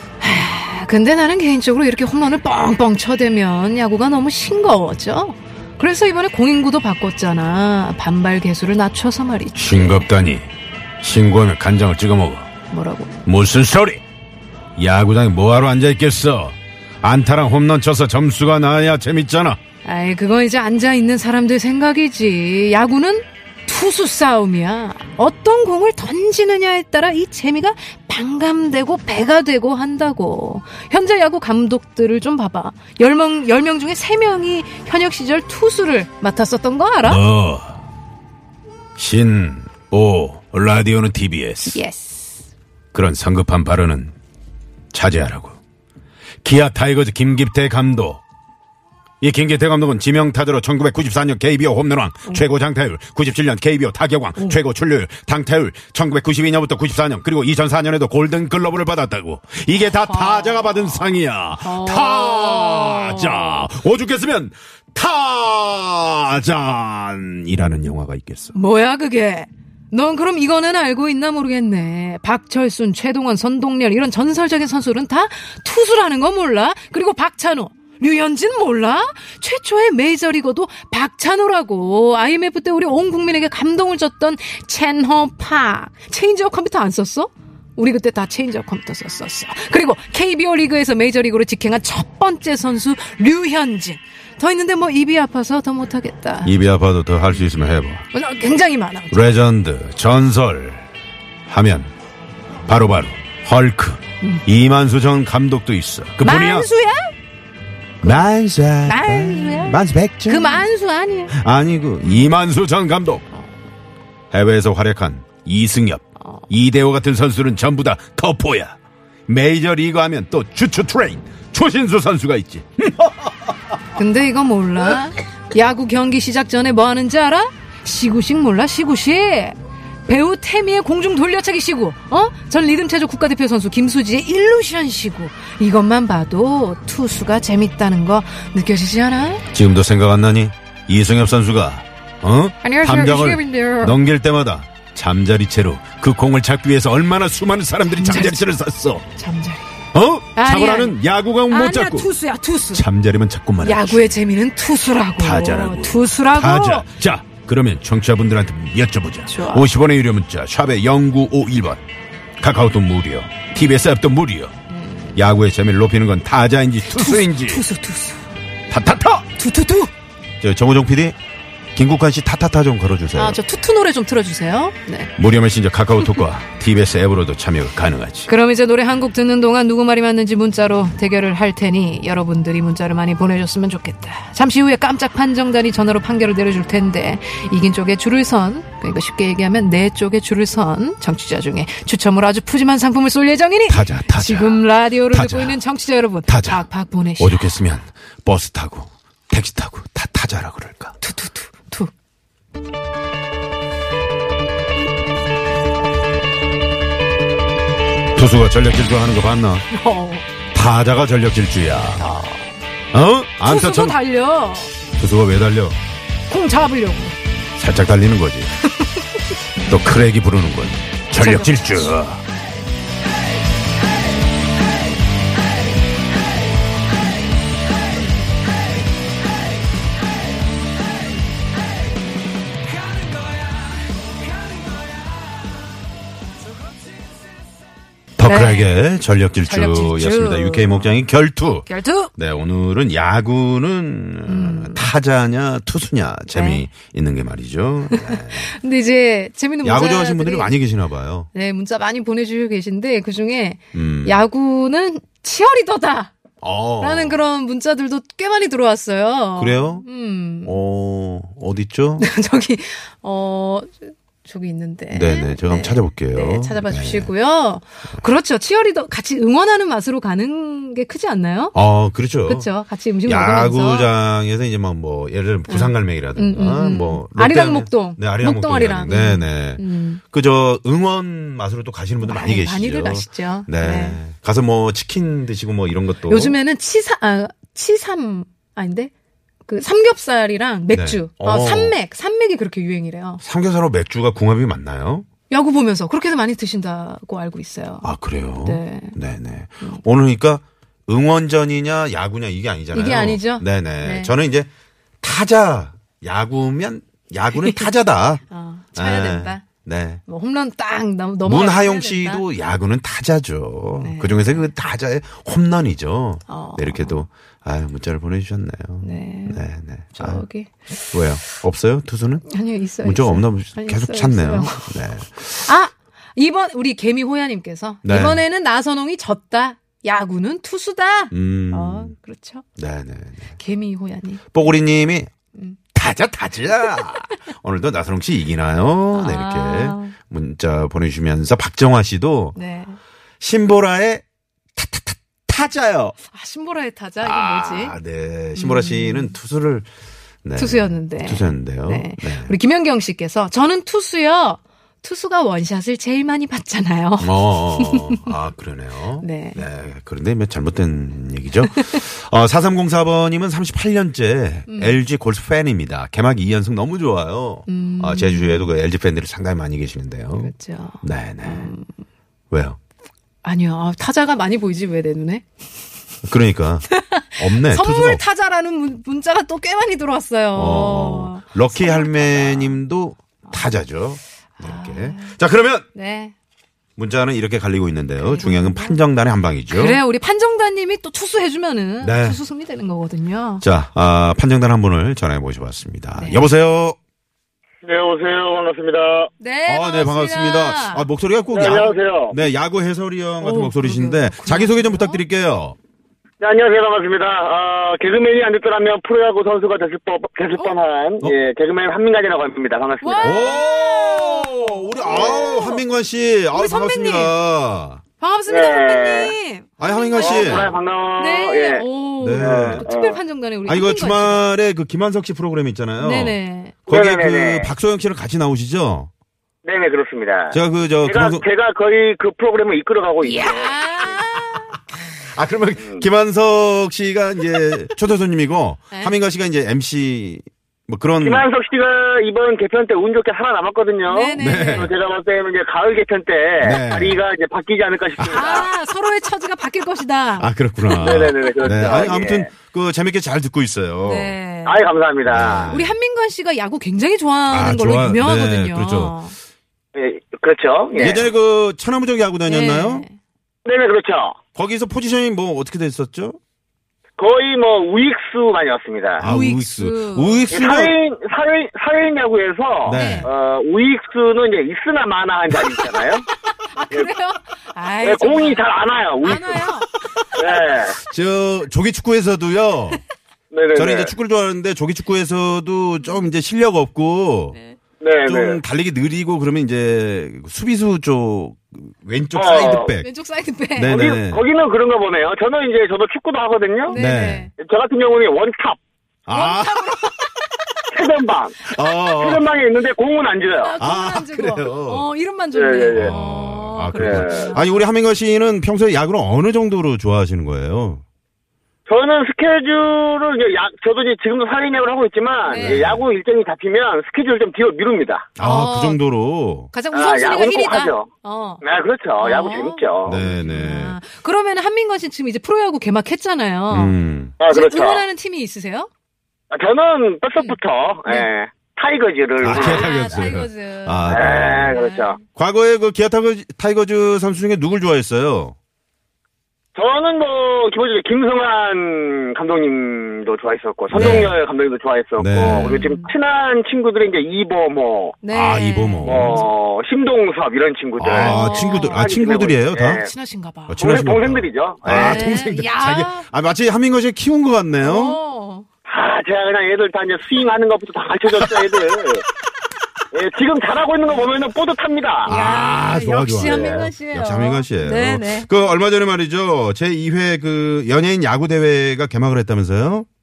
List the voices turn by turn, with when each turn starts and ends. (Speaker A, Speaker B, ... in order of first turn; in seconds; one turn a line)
Speaker A: 0.2-10.1
Speaker B: 9.6-10.5
Speaker B: 11.0-12.5
Speaker A: 12.7-13.1
Speaker B: 13.2-14.0
Speaker B: 14.8-19.6
Speaker A: 19.8-37.2
Speaker B: 37.0-37.8
Speaker B: 39.0-41.8
Speaker A: 41.7-42.5
Speaker B: 42.9-44.1
Speaker B: 44.9-45.6
Speaker B: 46.4-48.2
Speaker B: 49.2-68.5
Speaker A: 59.9-63.7
Speaker A: 68.5-96.6
Speaker B: 96.4-98.1
Speaker A: 98.1-99.3
Speaker B: 99.1-100.9
Speaker B: 101.5-101.9
Speaker B: 102.7-106.7
Speaker A: 106.2-107.1
Speaker B: 108.0-110.7
Speaker A: 108.0-108.3
Speaker A: 108.8-111.3
Speaker B: 111.3-113.2
Speaker A: 112.0-112.3
Speaker B: 114.3-118.8
Speaker B: 119.3-123.5
Speaker A: 124.0-139.4
Speaker B: 139.5-149.0
Speaker A: 142.6-144.0
Speaker A: 147.9-148.4
Speaker A: 149.1-149.7
Speaker B: 149.9-152.1
Speaker A: 150.3-151.0
Speaker A: 151.5-152.8
Speaker B: 152.7-154.2
Speaker A: 153.6-156.9
Speaker B: 155.2-161.8
Speaker A: 159.3-159.7
Speaker B: 162.4-164.5
Speaker A: 164.7-165.2
Speaker B: 165.2-167.6
Speaker A: 166.9-168.2
Speaker B: 168.7-169.3
Speaker A: 169.4-169.9
Speaker B: 170.4-171.2
Speaker B: 171.8-173.4
Speaker A: 173.2-175.2
Speaker B: 175.2-178.3
Speaker A: 178.3-197.5
Speaker B: 193.7-195.6
Speaker B: 196.3-196.7
Speaker B: 197.2-200.9
Speaker A: 201.0-201.9
Speaker B: 208.2-209.6
Speaker A: 209.7-210.2
Speaker B: 210.5-212.2
Speaker A: 212.0-212.5
Speaker B: 212.9-214.0
Speaker A: 213.4-214.7
Speaker B: 215.0-215.8
Speaker A: 216.3-217.2
Speaker B: 217.6-218.5
Speaker A: 218.8-219.3
Speaker B: 219.6-222.2
Speaker A: 221.2-222.0
Speaker B: 238.2-248.5
Speaker A: 238.2-238.7
Speaker A: 239.5-240.9
Speaker A: 241.7-242.1
Speaker A: 244.3-244.9
Speaker A: 246.3-246.7
Speaker A: 247.9-250.5
Speaker B: 249.6-251.3
Speaker A: 251.3-256.1
Speaker B: 253.7-254.2
Speaker B: 256.4-257.2
Speaker A: 256.8-260.6
Speaker B: 259.4-259.9
Speaker B: 260.4-262.1
Speaker A: 262.0-271.6
Speaker B: 264.9-267.1
Speaker B: 271.6-272.5
Speaker A: 272.3-273.9
Speaker B: 273.1-286.4
Speaker A: 275.5-280.0
Speaker A: 282.0-284.0
Speaker A: 286.1-288.9
Speaker A: 289.4-293.2
Speaker B: 290.7-291.8
Speaker B: 293.2-295.1
Speaker A: 295.3-297.9
Speaker B: 297.8-304.5
Speaker A: 298.4-299.0
Speaker A: 302.7-304.1
Speaker B: 305.0-308.2
Speaker A: 307.4-307.7
Speaker A: 308.3-309.5
Speaker B: 308.8-310.0
Speaker A: 310.1-312.3
Speaker B: 311.2-320.2
Speaker A: 313.8-314.5
Speaker A: 316.3-317.1
Speaker A: 318.8-319.4
Speaker A: 319.9-321.0
Speaker B: 320.9-322.3
Speaker A: 322.3-332.5
Speaker B: 322.8-325.4
Speaker B: 327.8-328.2
Speaker B: 331.1-331.9
Speaker B: 332.6-333.3
Speaker A: 333.4-334.5
Speaker B: 334.3-335.1
Speaker A: 335.4-335.6
Speaker B: 335.7-342.4
Speaker A: 338.9-340.0
Speaker A: 342.4-342.8
Speaker B: 343.2-344.0
Speaker B: 344.6-346.0
Speaker A: 346.1-347.8
Speaker B: 347.0-349.7
Speaker A: 348.4-349.1
Speaker B: 350.2-352.3
Speaker A: 350.4-358.1
Speaker B: 357.0-371.5
Speaker A: 359.0-359.4
Speaker A: 364.5-364.8
Speaker A: 367.5-368.5
Speaker A: 370.2-371.7
Speaker B: 372.3-372.6
Speaker A: 373.2-375.2
Speaker B: 376.1-378.0
Speaker A: 376.7-382.6
Speaker B: 380.4-385.7
Speaker A: 384.4-385.2
Speaker A: 385.7-386.1
Speaker B: 386.8-389.8
Speaker A: 388.0-388.8
Speaker A: 389.5-393.4
Speaker B: 391.8-392.2
Speaker B: 393.4-396.8
Speaker A: 396.0-396.3
Speaker C: 397.6-399.1
Speaker A: 399.2-400.9
Speaker B: 399.5-405.6
Speaker C: 401.3-402.2
Speaker A: 403.2-405.0
Speaker C: 406.2-413.4
Speaker A: 412.8-415.6
Speaker B: 413.0-417.8
Speaker C: 414.9-415.4
Speaker A: 416.3-417.1
Speaker A: 418.0-424.3
Speaker C: 418.3-419.1
Speaker B: 419.6-420.5
Speaker C: 420.0-421.7
Speaker B: 422.0-422.7
Speaker C: 422.2-423.0
Speaker B: 423.5-428.9
Speaker A: 425.8-426.6
Speaker C: 426.7-427.5
Speaker C: 429.4-433.6
Speaker B: 430.3-431.3
Speaker A: 433.0-434.6
Speaker B: 435.0-441.3
Speaker C: 435.6-435.9
Speaker A: 438.7-439.0
Speaker C: 441.0-448.5
Speaker A: 443.9-444.7
Speaker B: 444.2-444.7
Speaker B: 446.4-447.0
Speaker B: 448.0-448.3
Speaker A: 448.1-451.9
Speaker B: 450.2-454.2
Speaker C: 450.8-452.3
Speaker A: 453.8-454.7
Speaker C: 454.4-455.6
Speaker B: 455.1-455.8
Speaker A: 455.5-459.2
Speaker B: 457.3-459.0
Speaker C: 459.8-461.1
Speaker A: 460.8-461.0
Speaker B: 460.8-462.9
Speaker A: 462.3-463.0
Speaker C: 463.4-464.2
Speaker B: 464.4-466.2
Speaker C: 467.0-469.1
Speaker B: 469.0-470.8
Speaker A: 469.0-470.3
Speaker C: 470.3-476.0
Speaker B: 472.6-473.1
Speaker A: 472.7-473.1
Speaker A: 476.4-478.5
Speaker C: 477.8-479.4
Speaker A: 479.0-480.3
Speaker B: 479.1-479.5
Speaker C: 480.2-480.8
Speaker B: 480.8-482.8
Speaker C: 483.3-483.9
Speaker B: 483.6-487.4
Speaker A: 485.8-486.1
Speaker C: 487.8-488.4
Speaker B: 488.1-492.9
Speaker C: 492.1-492.7
Speaker A: 492.5-493.8
Speaker B: 493.6-494.2
Speaker C: 493.7-496.8
Speaker A: 496.6-497.3
Speaker B: 496.8-497.3
Speaker C: 497.4-498.6
Speaker B: 499.1-499.9
Speaker A: 499.1-500.1
Speaker C: 500.7-503.6
Speaker B: 501.5-502.3
Speaker A: 503.4-507.6
Speaker B: 503.6-504.9
Speaker C: 505.3-505.9
Speaker B: 505.7-510.8
Speaker C: 506.8-507.3
Speaker C: 511.7-518.1
Speaker A: 515.3-515.6
Speaker B: 515.4-515.9
Speaker B: 518.2-519.5
Speaker A: 518.2-518.8
Speaker A: 519.5-521.4
Speaker C: 519.7-520.9
Speaker C: 521.4-523.0
Speaker A: 522.0-526.8
Speaker B: 522.9-523.8
Speaker B: 526.5-527.2
Speaker C: 527.2-527.9
Speaker A: 527.3-528.7
Speaker C: 529.3-533.0
Speaker A: 530.2-531.1
Speaker B: 532.2-534.5
Speaker A: 532.2-535.0
Speaker C: 533.9-535.0
Speaker B: 535.1-538.4
Speaker C: 539.5-548.0
Speaker B: 543.7-544.2
Speaker A: 543.7-544.1
Speaker B: 545.0-545.6
Speaker A: 545.2-545.9
Speaker A: 548.0-549.3
Speaker B: 548.1-549.3
Speaker C: 548.9-552.9
Speaker B: 550.8-552.8
Speaker A: 550.9-551.9
Speaker A: 552.7-553.6
Speaker B: 553.5-558.0
Speaker C: 553.6-555.2
Speaker A: 554.6-556.1
Speaker A: 557.6-558.5
Speaker C: 558.7-562.0
Speaker C: 562.9-565.1
Speaker A: 565.1-568.3
Speaker B: 565.1-572.9
Speaker C: 566.2-566.7